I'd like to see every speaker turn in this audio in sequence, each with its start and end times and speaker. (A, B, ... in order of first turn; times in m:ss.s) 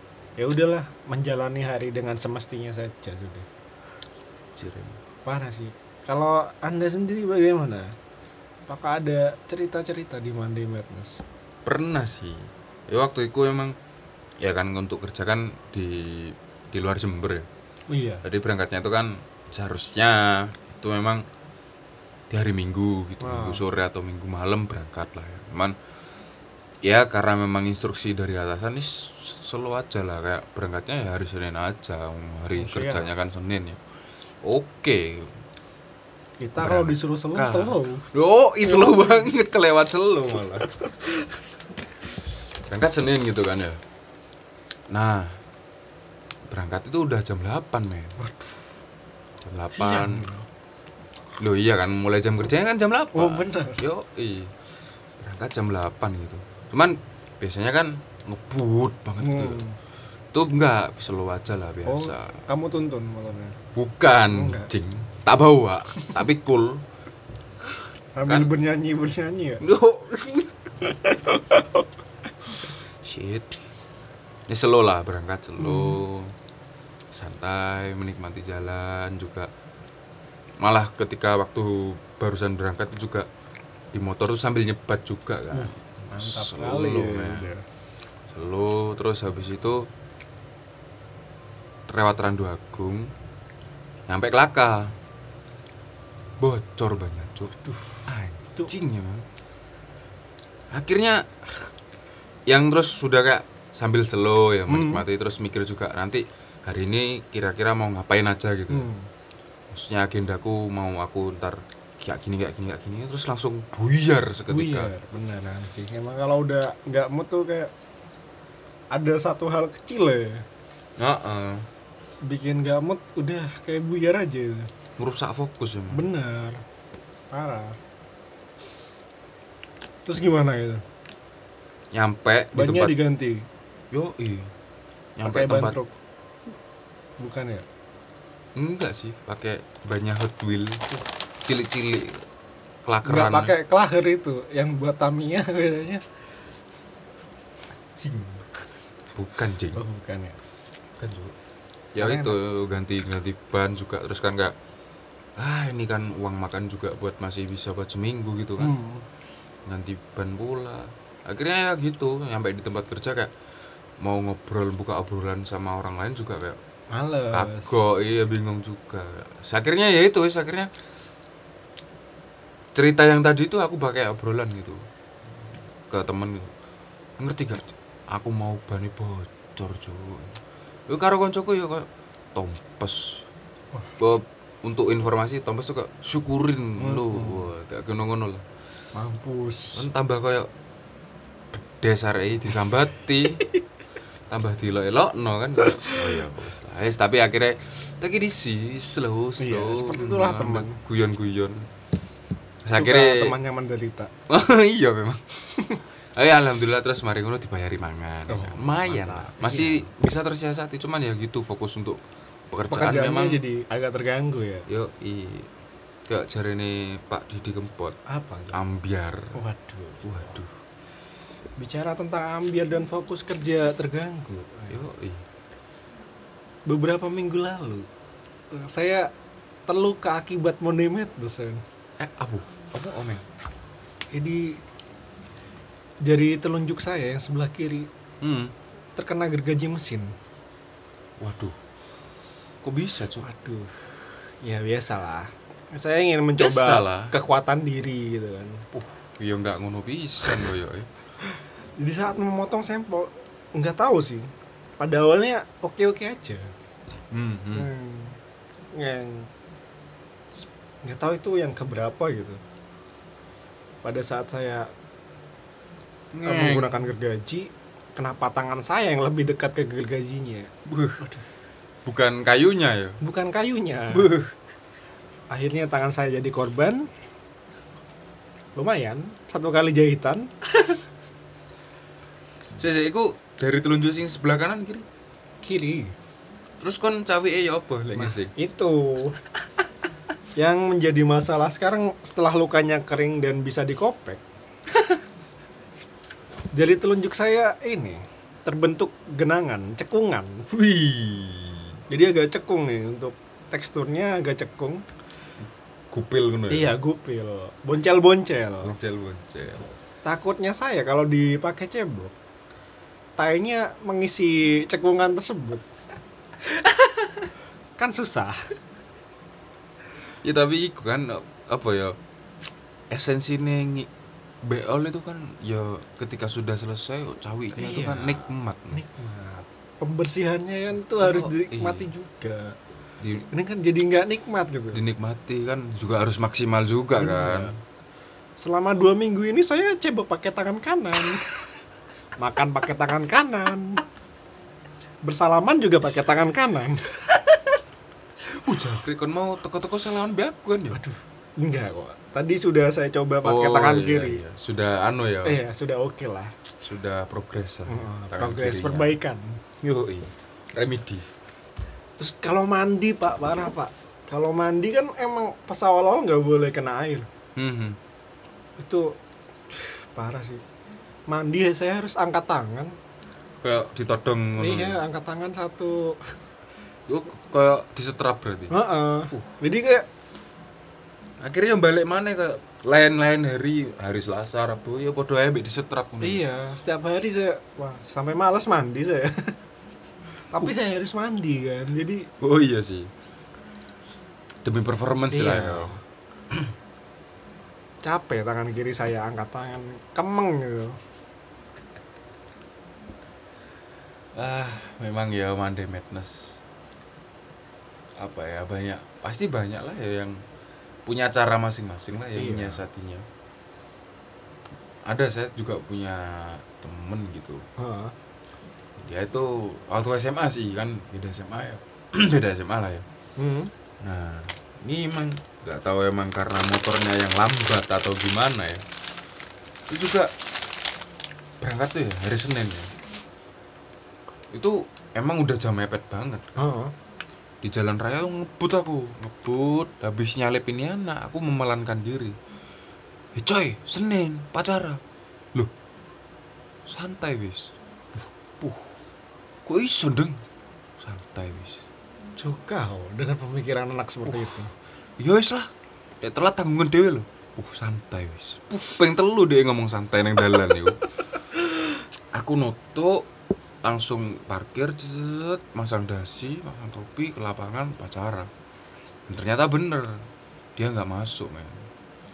0:00.4-0:03.5 A
0:04.6-0:05.0 B
0:05.2-0:07.9 A
0:08.7-0:11.2 A
0:11.6-0:13.8 B
0:14.4-0:17.5 B
0:17.9-0:18.2 A
0:18.2-0:21.3 B
0:22.3-0:25.8 B
0:23.2-0:23.6 A
0:26.8-0:33.8 B
0:32.6-0:33.1 A
0:34.4-0:35.3 B
0:36.4-0:38.1 A
0:36.6-0:40.7 B
0:38.6-0:39.3 A
0:42.7-0:43.8 B
0:44.9-0:45.4 B
0:46.5-0:48.2 B
0:48.2-0:48.6 A
0:49.4-0:50.3 B
0:49.8-0:50.4 A
0:51.4-0:54.5 B
0:53.2-0:53.8 A
0:55.2-0:59.6 B
0:59.2-0:59.8 A
1:00.3-1:02.4 B
1:01.9-1:03.6 A
1:03.7-1:06.8 B
1:04.3-1:04.7 A
1:08.2-1:09.6 A
1:09.6-1:10.5 B
1:10.8-1:11.8 A
1:13.0-1:13.5 B
1:14.5-1:16.3 B
1:15.6-1:16.0 A
1:17.1-1:19.5 B
1:20.6-1:23.3 B
1:23.9-1:27.5 B
1:25.5-1:27.6 A
1:28.3-1:29.9 B
1:31.9-1:33.1 B
1:34.1-1:35.0 B
1:36.4-1:39.3 B
1:37.6-1:38.7 A
1:40.7-1:41.3 B
1:42.5-1:48.9 B
1:44.7-1:45.0 A
1:48.7-1:49.1 A
1:49.7-1:54.9 B
1:54.5-1:57.7 A
1:58.9-2:00.4 A
2:01.0-2:01.7 B
2:02.2-2:04.7 A
2:05.0-2:06.0 B
2:05.9-2:06.6 A
2:07.3-2:07.8 A
2:10.1-2:10.8 A
2:11.9-2:13.0 B
2:12.5-2:13.5 A
2:13.9-2:14.5 B
2:15.2-2:15.8 B
2:15.2-2:15.9 A
2:17.2-2:17.6 A
2:18.6-2:20.8 B
2:21.4-2:22.2 B
2:22.9-2:23.5 B
2:23.0-2:26.0 A
2:29.1-2:29.8 B
2:29.8-2:30.4 A
2:31.0-2:31.4 B
2:32.0-2:34.6 B
2:32.0-2:32.4 A
2:35.4-2:38.8 B
2:38.6-2:39.0 A
2:39.7-2:43.3 B
2:44.0-2:46.6 B
2:46.9-2:47.8 A
2:47.3-2:50.7 B
2:52.8-2:54.9 B
2:55.9-2:56.5 B
2:57.2-3:00.4 B
3:00.9-3:03.2 B
3:04.0-3:08.4 B
3:06.8-3:07.5 A
3:08.9-3:09.9 A
3:09.8-3:10.5 B
3:11.5-3:13.4 B
3:14.3-3:21.7 B
3:15.7-3:16.2 A
3:19.4-3:20.8 A
3:22.6-3:23.3 B
3:22.7-3:24.1 A
3:24.3-3:33.4 B
3:28.3-3:29.9 A
3:32.7-3:34.7 A
3:34.7-3:35.5 B
3:36.1-3:38.0 B
3:38.1-3:38.6 A
3:38.5-3:39.4 B
3:39.3-3:40.3 A
3:40.0-3:40.6 B
3:41.6-3:44.8 A
3:44.7-3:45.2 B
3:46.7-3:47.9 A
3:48.5-3:49.1 A
3:49.7-3:51.6 A
3:52.0-3:53.2 B
3:54.1-3:54.6 A
3:56.0-3:57.9 A
3:58.2-3:58.5 B
3:59.0-4:00.1 A
4:01.2-4:01.6 B
4:02.6-4:03.3 B
4:03.2-4:08.7 A
4:06.4-4:07.1 B
4:08.7-4:10.9 B
4:11.8-4:16.5 A
4:17.1-4:17.7 B
4:17.6-4:18.2 A
4:18.7-4:19.3 A
4:20.4-4:22.4 A
4:23.8-4:24.7 A
4:26.1-4:26.9 B
4:26.2-4:31.2 A
4:30.7-4:31.0 B
4:31.8-4:33.0 B
4:33.0-4:34.1 A
4:33.9-4:34.4 B
4:35.3-4:36.9 A
4:38.6-4:40.3 A
4:42.6-4:44.9 B
4:45.4-4:46.0 A
4:46.6-4:48.3 B
4:48.0-4:49.2 A
4:50.4-4:54.2 A
4:56.5-5:00.5 A
5:00.5-5:01.8 B
5:01.9-5:04.8 A
5:05.9-5:06.8 B
5:06.5-5:08.8 A
5:08.6-5:09.6 B
5:10.0-5:12.1 A
5:13.2-5:15.7 A
5:16.5-5:17.2 B
5:17.8-5:18.4 A
5:20.2-5:22.0 B
5:22.9-5:23.9 B
5:24.4-5:28.8 B
5:27.5-5:32.6 A
5:31.0-5:31.9 B
5:33.0-5:33.3 B
5:33.3-5:34.8 A
5:34.7-5:37.5 B
5:37.0-5:37.6 A
5:38.4-5:41.2 A
5:42.2-5:43.8 A
5:45.0-5:47.0 A
5:48.3-5:50.8 B
5:50.7-5:54.2 A
5:53.2-5:55.4 B
5:55.2-5:56.3 A
5:56.6-5:59.0 B
5:57.7-5:59.4 A
5:59.6-6:01.1 B
6:02.0-6:07.1 A
6:07.4-6:07.8 B
6:08.6-6:09.0 A
6:09.6-6:10.4 A
6:11.1-6:12.8 A
6:13.4-6:14.8 B
6:14.4-6:16.2 A
6:16.9-6:18.6 B
6:18.5-6:19.9 A
6:21.2-6:26.2 B
6:26.0-6:29.4 A
6:30.3-6:32.1 A
6:32.2-6:32.9 B
6:34.4-6:35.8 B
6:35.1-6:35.8 A
6:37.8-6:40.8 A
6:44.2-6:46.4 B
6:48.0-6:50.2 B
6:50.9-6:53.0 B
6:52.2-6:52.6 A
6:54.9-6:57.4 B
6:57.6-6:57.9 A
6:58.8-7:02.8 B
7:03.2-7:03.5 A
7:03.8-7:08.6 B
7:09.7-7:10.1 B
7:11.4-7:12.7 B
7:14.3-7:16.3 B
7:16.4-7:16.7 A
7:17.4-7:22.2 B
7:23.2-7:24.8 B
7:26.7-7:27.5 B
7:29.4-7:30.2 B
7:30.8-7:31.6 B
7:32.2-7:34.5 A
7:34.1-7:34.4 B
7:35.0-7:40.8 B
7:42.1-7:43.1 B
7:43.6-7:48.3 B
7:49.1-7:51.6 B